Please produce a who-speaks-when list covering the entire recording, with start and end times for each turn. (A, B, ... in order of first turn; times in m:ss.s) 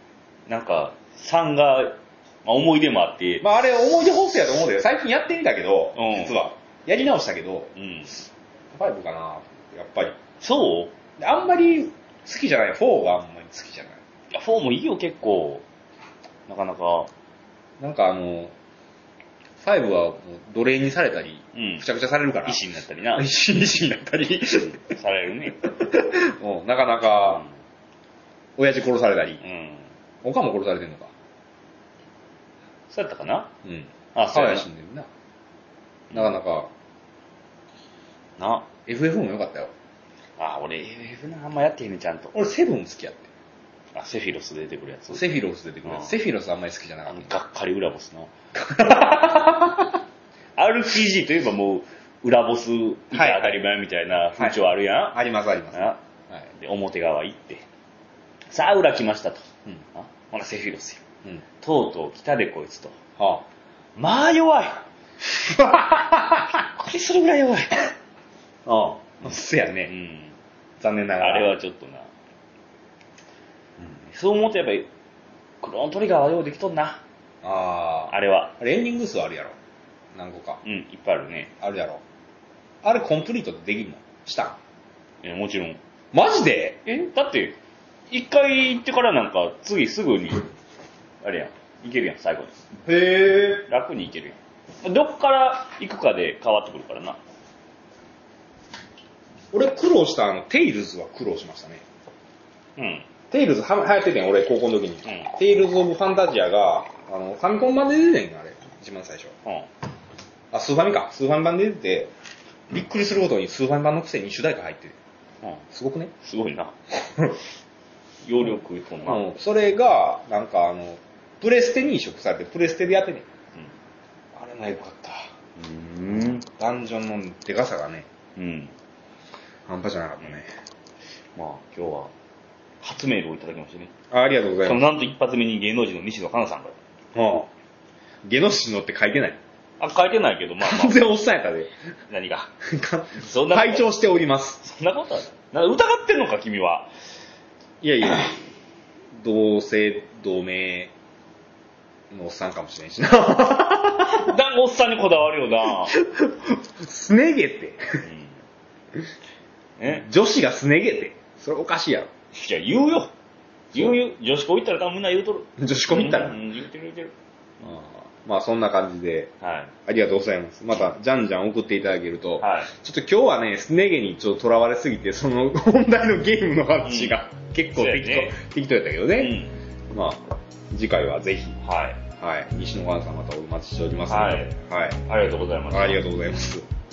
0:00.5-0:03.4 A
0:03.4-0:07.7 B
0:06.0-0:06.4 A
0:07.8-0:08.1 A
0:08.7-0:10.2 B
0:10.4-0:10.9 A
0:11.2-0:14.0 B
0:14.3-0:15.6 A
0:16.5-0:17.1 A
0:17.8-0:18.5 B
0:19.6-0:22.6 B
0:21.5-0:21.8 A
0:22.5-0:23.3 A
0:23.2-0:24.8 B
0:24.8-0:25.6 A
0:25.6-0:27.4 B
0:28.6-0:29.4 B
0:29.4-0:29.9 A
0:30.2-0:31.1 B
0:32.9-0:33.5 A
0:33.6-0:35.1 B
0:34.1-0:34.7 A
0:36.1-0:36.7 B
0:38.4-0:38.7 A
0:38.9-0:39.7 B
0:40.4-0:42.4 A
0:42.3-0:43.3 B
0:44.0-0:45.3 A
0:45.1-0:47.4 B
0:45.8-0:46.1 A
0:47.1-0:48.3 A
0:48.5-0:50.0 B
0:50.6-0:55.2 A
0:53.1-0:53.6 B
0:55.1-0:56.4 B
0:55.7-0:56.0 A
0:56.5-0:57.7 A
0:58.5-1:01.0 A
1:01.6-1:03.0 A
1:03.2-1:03.5 B
1:04.0-1:04.8 A
1:05.3-1:06.6 B
1:06.5-1:07.9 A
1:08.7-1:09.9 B
1:09.9-1:10.4 A
1:10.8-1:11.5 B
1:11.2-1:12.1 A
1:13.8-1:14.9 A
1:15.6-1:17.0 A
1:17.4-1:19.6 B
1:18.1-1:18.5 A
1:20.2-1:20.6 B
1:20.6-1:21.5 A
1:21.6-1:22.0 B
1:22.8-1:24.6 B
1:25.2-1:25.8 A
1:26.1-1:26.9 B
1:26.9-1:27.6 A
1:28.1-1:30.5 A
1:31.2-1:32.5 A
1:32.9-1:33.7 B
1:33.7-1:37.2 A
1:39.5-1:41.8 B
1:42.8-1:43.1 A
1:43.3-1:49.3 B
1:45.0-1:45.3 A
1:50.5-1:52.1 B
1:52.7-1:55.0 B
1:55.7-1:56.1 B
1:56.2-1:56.7 A
1:56.9-1:57.4 B
1:58.2-1:59.3 A
1:59.0-2:03.3 B
2:04.4-2:05.3 B
2:05.6-2:06.5 A
2:06.4-2:08.1 B
2:08.4-2:08.7 A
2:09.7-2:10.5 B
2:11.4-2:12.1 A
2:12.8-2:13.9 A
2:14.1-2:14.9 B
2:14.6-2:16.8 A
2:17.2-2:17.5 B
2:18.2-2:19.4 B
2:19.8-2:21.0 A
2:20.6-2:21.7 B
2:22.1-2:22.5 A
2:22.6-2:24.6 B
2:23.1-2:23.9 A
2:24.6-2:26.9 A
2:27.8-2:28.5 B
2:29.1-2:30.9 B
2:32.1-2:34.4 B
2:34.0-2:36.0 A
2:35.7-2:38.0 B
2:38.0-2:38.4 A
2:39.8-2:40.1 A
2:39.9-2:42.1 B
2:42.3-2:43.1 A
2:43.7-2:47.1 A
2:45.6-2:46.4 B
2:47.6-2:49.3 B
2:49.4-2:49.7 A
2:49.9-3:01.6 B
2:52.4-2:52.7 A
2:56.8-2:57.2 A
2:57.7-2:58.4 A
2:59.2-2:59.6 A
3:01.6-3:02.0 A
3:02.1-3:05.0 B
3:04.1-3:04.5 A
3:05.1-3:06.0 A
3:05.7-3:06.7 B